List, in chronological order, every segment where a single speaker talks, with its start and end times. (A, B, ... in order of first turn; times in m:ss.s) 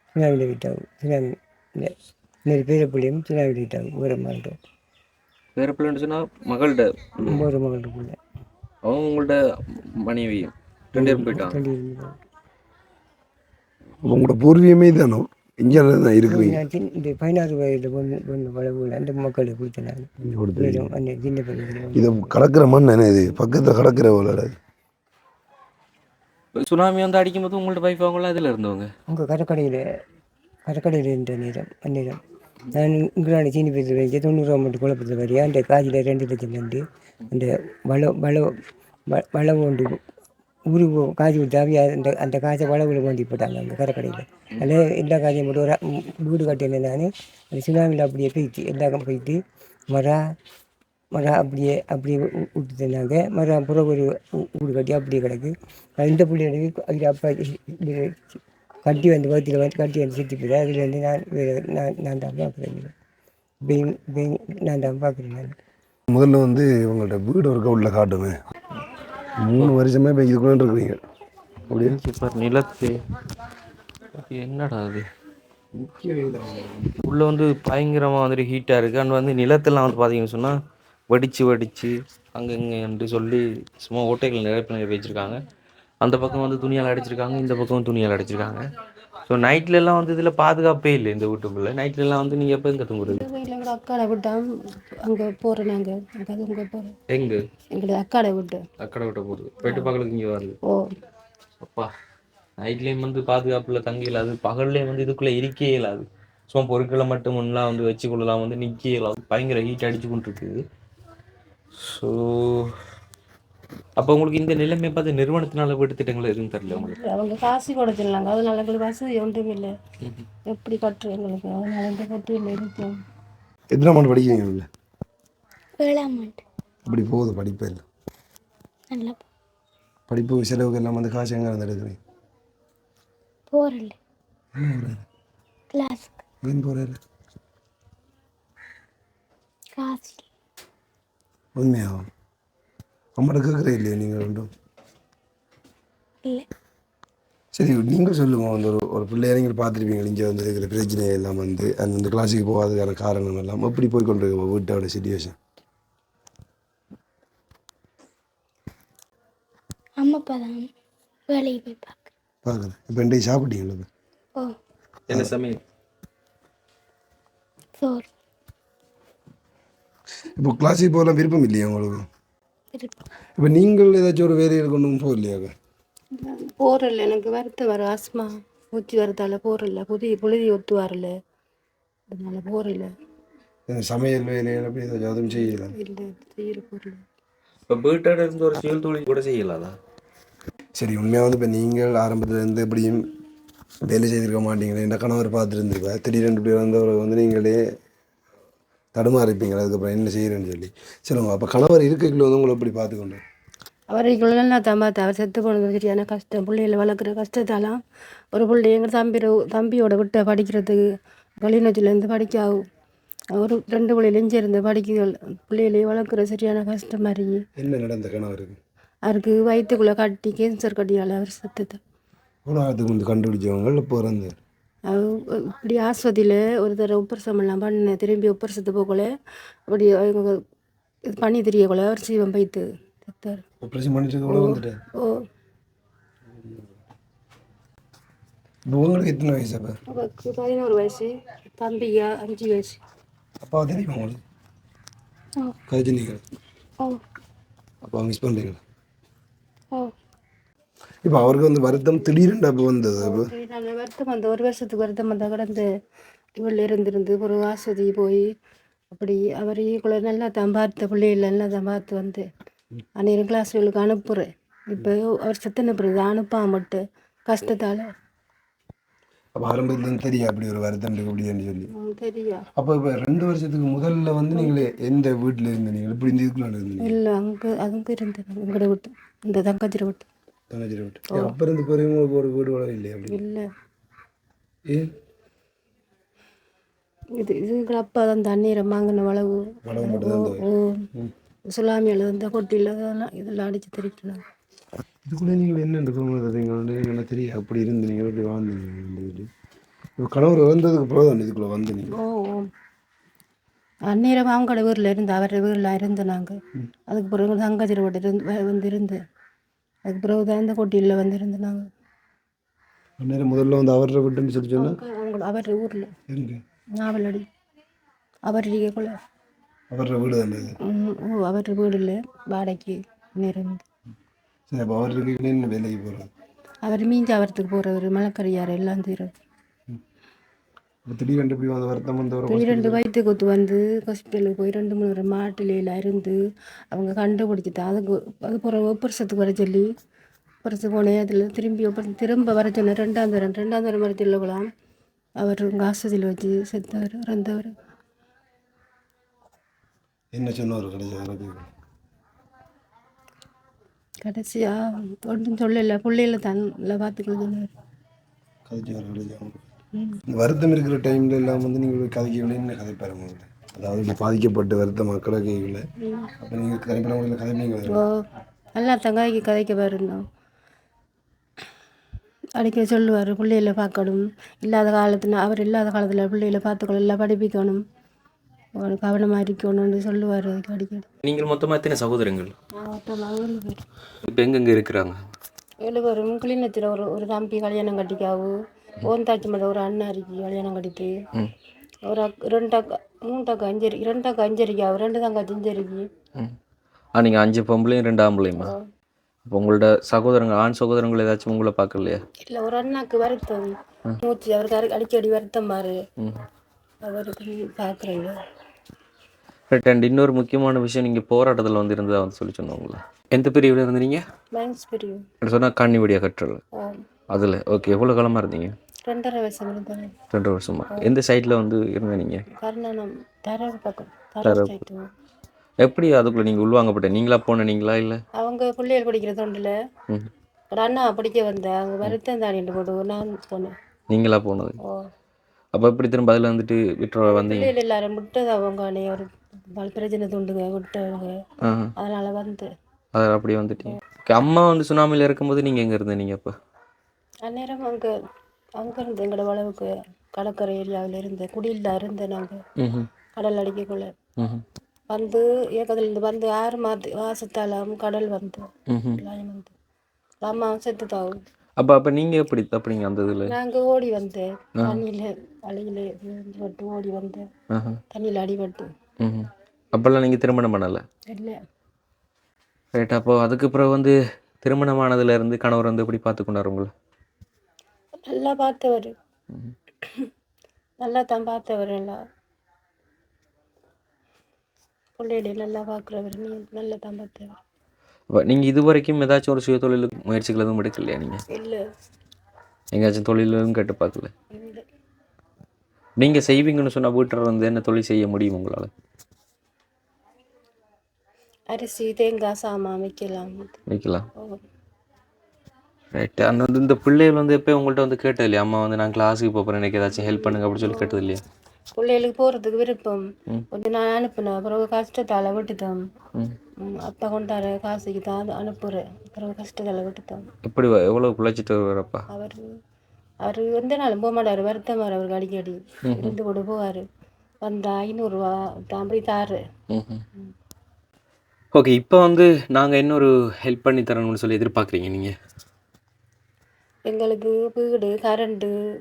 0:00.2-0:02.0 A
0:02.5-0:04.6 A
0:05.6-0:07.4 B
0:07.2-0:08.2 A
0:08.8-0:11.6 B
0:11.0-0:12.2 A
0:14.0-0:16.6 C
0:16.3-0:22.3 A
0:20.2-0:20.9 C
0:21.9-0:24.6 C
0:26.6-0:28.9 B
0:29.1-0:29.8 A
0:30.7-0:32.2 A
0:32.7-0:38.5 A
0:39.1-0:40.0 A
0:40.7-0:50.2 A
0:51.1-1:02.9 A
1:03.6-1:05.6 A
1:06.1-1:08.4 C
1:09.4-1:11.0 C
1:11.7-1:12.0 C
1:11.7-1:13.0 B
1:14.2-1:15.1 B
1:15.8-1:17.0 C
1:17.0-1:20.6 B
1:21.1-1:25.4 B
1:26.0-1:28.6 B
1:29.3-1:33.2 B
1:33.1-1:34.4 D
1:35.0-1:36.9 D
1:37.1-1:37.4 B
1:37.7-1:38.6 D
1:38.8-1:40.6 B
1:39.6-1:39.9 D
1:41.6-1:41.9 B
1:42.6-1:50.6 B
1:51.8-1:52.7 B
1:54.0-1:57.0 B
1:56.7-1:59.7 D
2:00.5-2:03.0 D
2:03.7-2:04.7 C
2:05.8-2:06.4 E
2:06.9-2:07.8 C
2:08.9-2:09.2 E
2:10.1-2:12.0 C
2:13.5-2:14.0 E
2:14.6-2:15.0 C
2:15.7-2:16.2 E
2:16.4-2:17.0 C
2:19.8-2:20.3 E
2:21.6-2:22.0 C
2:23.2-2:24.5 C
2:27.5-2:35.4 C
2:40.0-2:40.7 E
2:41.3-2:42.1 E
2:42.4-2:43.9 C
2:45.1-2:45.6 B
2:47.8-2:48.1 E
2:50.4-2:52.1 C
2:52.7-2:53.0 E
2:53.4-2:55.5 C
2:56.2-3:01.1 D
3:02.1-3:02.9 D
3:03.7-3:05.7 C
3:05.4-3:07.0 D
3:07.7-3:09.8 B
3:10.8-3:13.0 C
3:13.8-3:17.6 C
3:18.9-3:23.2 C
3:23.9-3:27.8 D
3:28.3-3:30.8 D
3:31.4-3:32.6 D
3:33.4-3:37.4 D
3:37.6-3:38.6 C
3:39.1-3:41.8 D
3:42.5-3:44.4 C
3:44.9-3:49.1 D
3:49.7-3:50.3 D
3:51.1-3:53.4 D
3:53.6-3:54.8 C
3:54.3-3:55.1 D
3:58.7-3:59.8 C
3:59.9-4:02.8 D
4:03.4-4:04.2 C
4:05.7-4:06.2 C
4:07.8-4:08.6 C
4:11.0-4:13.3 C
4:13.0-4:15.6 D
4:16.4-4:18.2 D
4:18.9-4:22.2 D
4:23.0-4:27.8 D
4:29.4-4:31.7 C
4:31.8-4:32.4 D
4:32.6-4:37.0 C
4:36.8-4:40.1 D
4:40.5-4:43.2 C
4:43.1-4:43.4 D
4:47.2-4:50.8 D
4:49.7-4:50.4 C
4:51.5-4:54.2 D
4:55.1-4:59.3 C
5:00.0-5:01.9 C
5:02.0-5:02.5 D
5:03.9-5:06.4 D
5:06.9-5:09.0 D
5:09.9-5:11.6 D
5:13.0-5:14.8 C
5:14.6-5:15.9 D
5:16.1-5:16.4 C
5:16.8-5:17.2 D
5:18.3-5:18.9 D
5:19.7-5:20.5 C
5:20.7-5:23.6 D
5:24.5-5:26.1 C
5:26.7-5:29.1 D
5:30.9-5:32.8 C
5:32.3-5:36.2 D
5:36.7-5:39.6 D
5:40.4-5:44.4 D
5:45.2-5:47.5 D
5:50.1-5:51.5 C
5:54.0-5:57.5 D
5:58.5-5:59.4 C
6:00.1-6:05.6 C
6:05.8-6:06.1 D
6:06.2-6:07.8 C
6:08.6-6:10.0 D
6:12.4-6:17.6 D
6:18.6-6:20.8 D
6:21.0-6:22.4 B
6:22.6-6:23.6 D
6:24.0-6:25.0 B
6:25.6-6:30.9 D
6:31.9-6:35.8 D
6:37.0-6:38.5 B
6:39.3-6:42.0 B
6:42.3-6:45.8 D
6:46.8-6:48.1 D
6:49.5-6:54.0 B
6:54.3-6:55.0 D
6:55.2-6:56.4 B
6:57.1-6:58.5 B
6:58.9-6:59.9 D
7:00.1-7:02.2 B
7:02.4-7:04.9 D
7:04.2-7:04.6 B
7:05.6-7:08.0 B
7:08.2-7:09.5 D
7:10.5-7:13.5 D
7:13.9-7:14.6 B
7:15.6-7:17.5 B
7:17.1-7:21.1 D
7:21.4-7:21.7 B
7:21.8-7:22.5 D
7:22.9-7:26.3 B
7:27.3-7:27.9 D
7:28.6-7:32.4 D
7:32.6-7:32.9 B
7:33.2-7:33.9 D
7:34.9-7:38.5 D
7:38.7-7:39.0 B
7:39.0-7:39.5 D
7:40.2-7:41.2 D
7:41.6-7:43.3 B
7:43.2-7:47.2 D
7:47.5-7:47.8 B
7:47.9-7:48.7 D
7:49.0-7:50.8 B
7:51.1-7:51.4 D
7:52.8-7:56.7 B
7:58.1-7:58.9 D
8:00.8-8:02.0 D
8:05.0-8:07.4 D
8:08.1-8:11.2 B
8:11.3-8:11.6 D
8:12.7-8:14.1 B
8:14.3-8:14.6 D
8:16.0-8:18.7 B
8:21.5-8:23.5 D
8:23.7-8:24.1 B
8:26.0-8:31.2 B
8:30.0-8:31.1 D
8:31.8-8:33.0 D
8:33.5-8:35.8 D
8:36.7-8:40.3 D
8:40.4-8:42.0 B
8:42.1-8:42.4 D
8:43.2-8:46.8 D
8:45.9-8:46.2 B
8:47.4-8:49.4 D
8:49.7-8:50.0 B
8:51.5-8:55.1 B
8:56.9-8:58.5 D